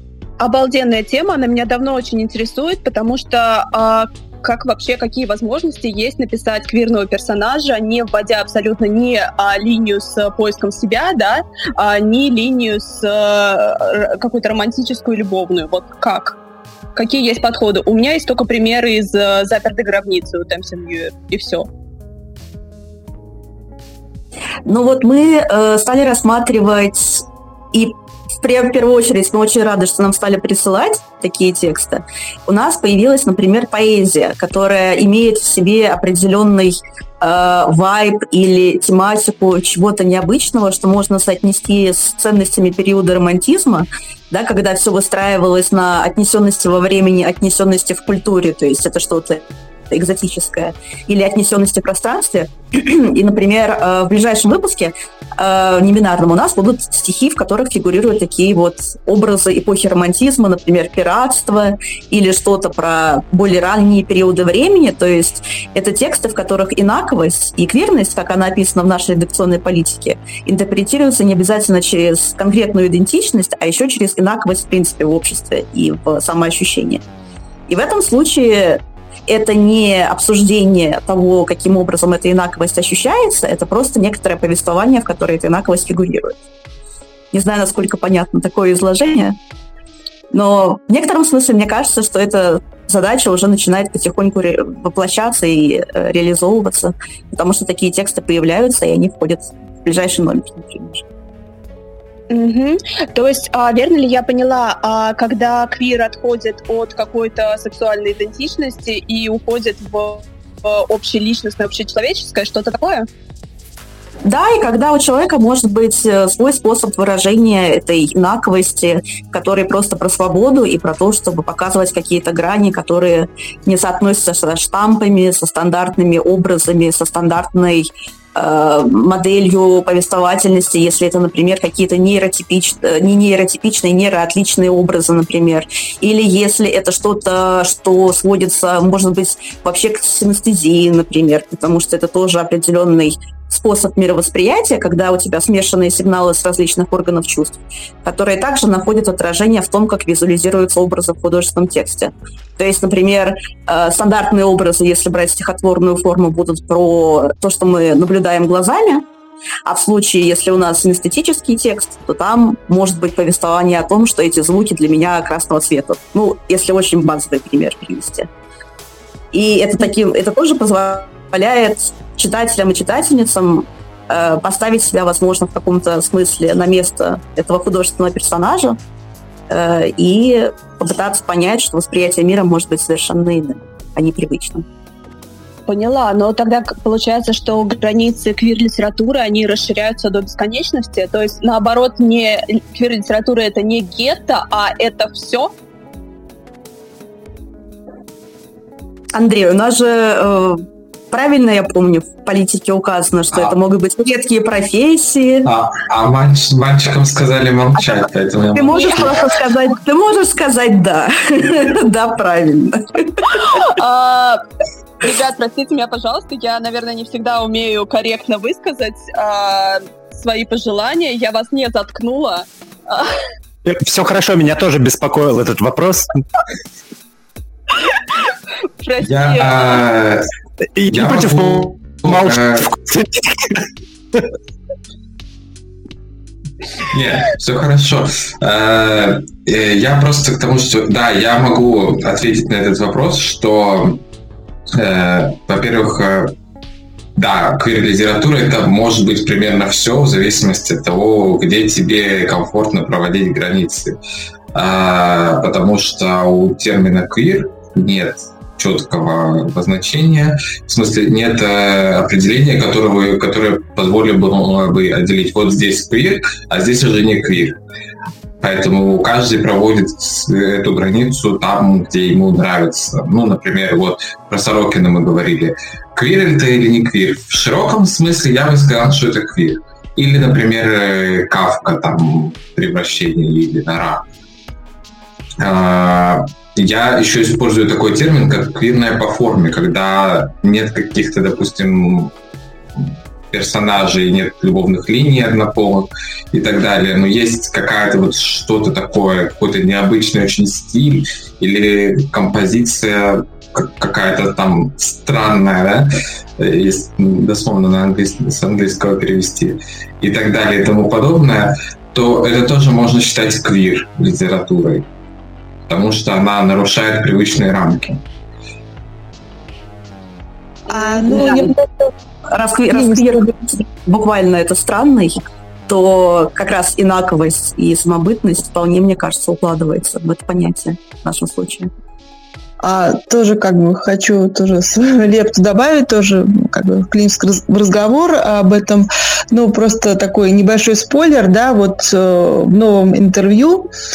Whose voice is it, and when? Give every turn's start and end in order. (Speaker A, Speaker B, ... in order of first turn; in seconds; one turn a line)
Speaker A: 0.4-16.4
Speaker A: 16.9-21.7
Speaker B: 24.6-77.0
Speaker B: 77.7-86.4
Speaker B: 87.3-89.4
Speaker B: 90.3-101.0
Speaker A: 102.3-113.1
Speaker B: 114.2-159.1
Speaker B: 159.6-168.3
Speaker B: 169.3-178.8
Speaker B: 179.5-184.7
Speaker A: 185.7-195.5
Speaker B: 199.1-205.5
Speaker C: 205.4-209.3
Speaker B: 207.8-213.2
Speaker A: 208.7-209.2
Speaker A: 213.3-214.4
Speaker A: 215.0-223.1
Speaker D: 223.6-226.1
Speaker A: 228.8-229.8
Speaker C: 229.0-230.3
Speaker D: 230.8-233.6
Speaker C: 230.9-232.7
Speaker C: 236.8-244.0
Speaker C: 244.7-246.3
Speaker C: 247.2-253.9
Speaker C: 254.5-267.6
Speaker C: 268.4-284.0
Speaker C: 285.4-292.1
Speaker C: 292.8-314.9
Speaker C: 315.7-318.0
Speaker E: 320.7-321.9
Speaker B: 320.9-321.5
Speaker B: 322.3-331.7
Speaker E: 322.7-323.2
Speaker E: 332.6-343.7